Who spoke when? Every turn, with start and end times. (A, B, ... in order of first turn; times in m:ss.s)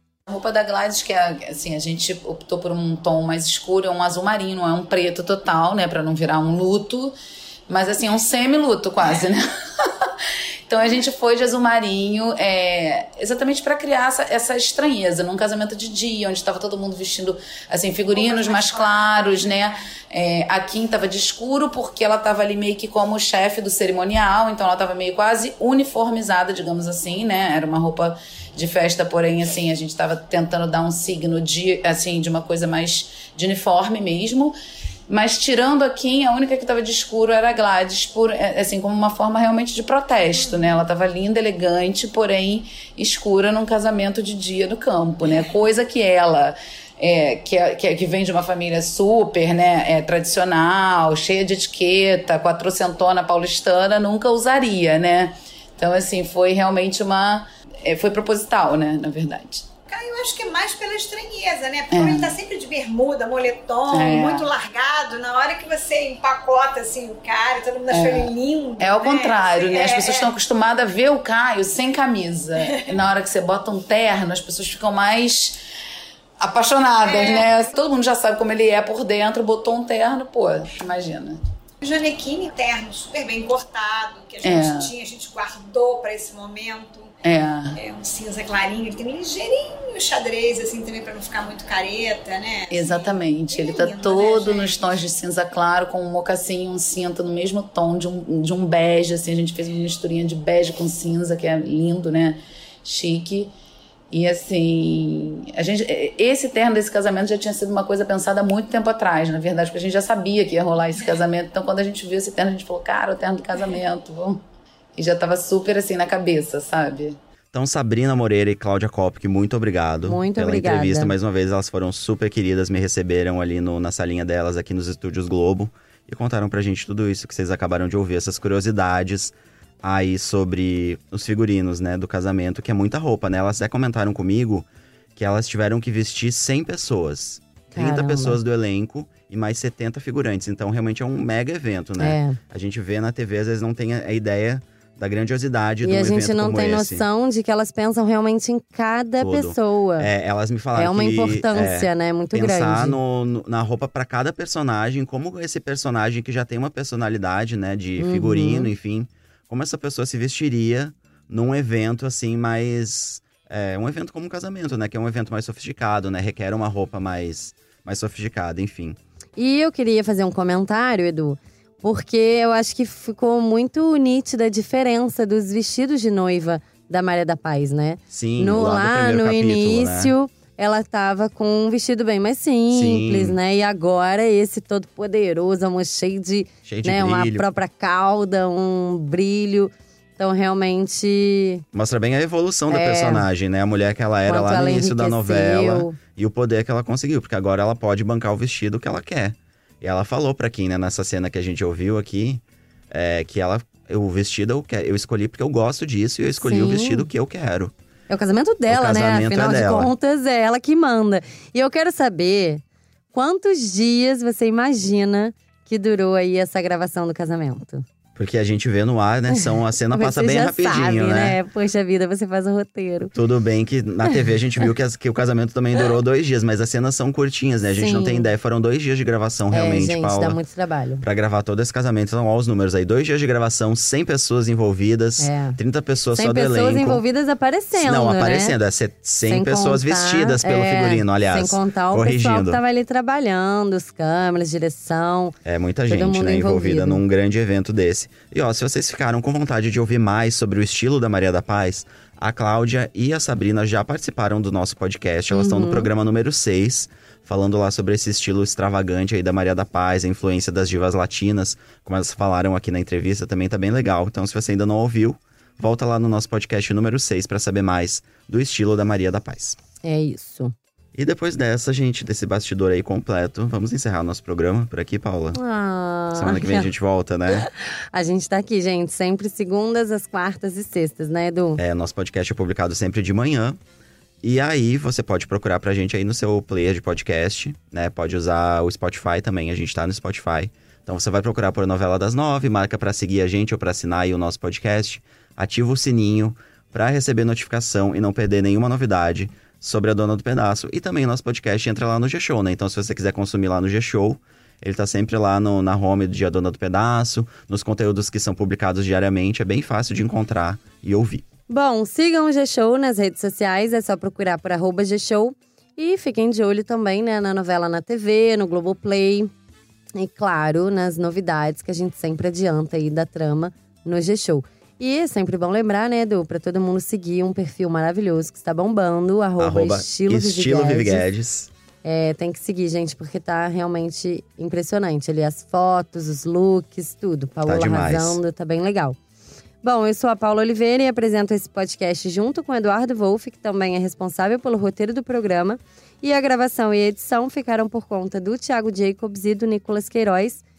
0:00.3-0:07.1 A
0:07.7-0:10.1 A
0:10.7-0:34.5 A
0:18.2-0:19.4 B
0:35.1-0:59.7 A
0:59.9-1:10.3 B
1:01.9-1:02.4 A
1:03.9-1:04.5 A
1:07.9-1:15.6 A
1:16.4-1:21.4 A
1:17.0-1:17.6 B
1:21.8-1:27.1 B
1:24.4-1:24.9 A
1:27.2-1:27.8 A
1:27.8-1:35.0 B
1:32.7-1:43.5 A
1:44.1-1:54.4 A
1:55.0-1:57.2 A
1:57.5-2:27.0 C
2:00.1-2:01.2 D
2:17.7-2:18.4 D
2:22.0-2:22.4 D
2:25.8-2:30.1 D
2:29.2-2:49.0 C
2:30.7-2:33.0 D
2:38.0-2:38.7 D
2:49.4-3:11.6 D
2:58.1-3:00.1 C
3:02.7-3:03.4 C
3:06.7-3:07.5 C
3:11.7-3:27.7 C
3:12.7-3:13.3 D
3:14.2-3:16.0 D
3:26.4-3:27.1 D
3:28.1-3:37.8 D
3:28.7-3:29.9 C
3:38.2-3:41.4 C
3:39.3-3:43.1 D
3:43.1-3:50.4 C
3:47.7-3:48.3 D
3:49.5-3:51.0 D
3:51.0-3:57.0 C
3:55.2-3:55.6 D
3:56.1-3:58.6 D
3:57.7-4:02.6 C
3:59.3-4:05.4 D
4:05.4-4:29.6 C
4:05.9-4:07.0 D
4:15.3-4:15.9 D
4:29.8-4:30.5 D
4:31.0-4:35.4 C
4:35.3-4:36.7 D
4:36.1-4:37.5 C
4:37.3-4:41.6 D
4:41.6-4:43.6 C
4:44.2-5:11.2 C
5:11.5-5:19.3 D
5:20.0-5:31.1 D
5:29.4-5:31.5 C
5:31.8-5:39.0 D
5:37.4-5:38.2 C
5:39.6-5:50.4 D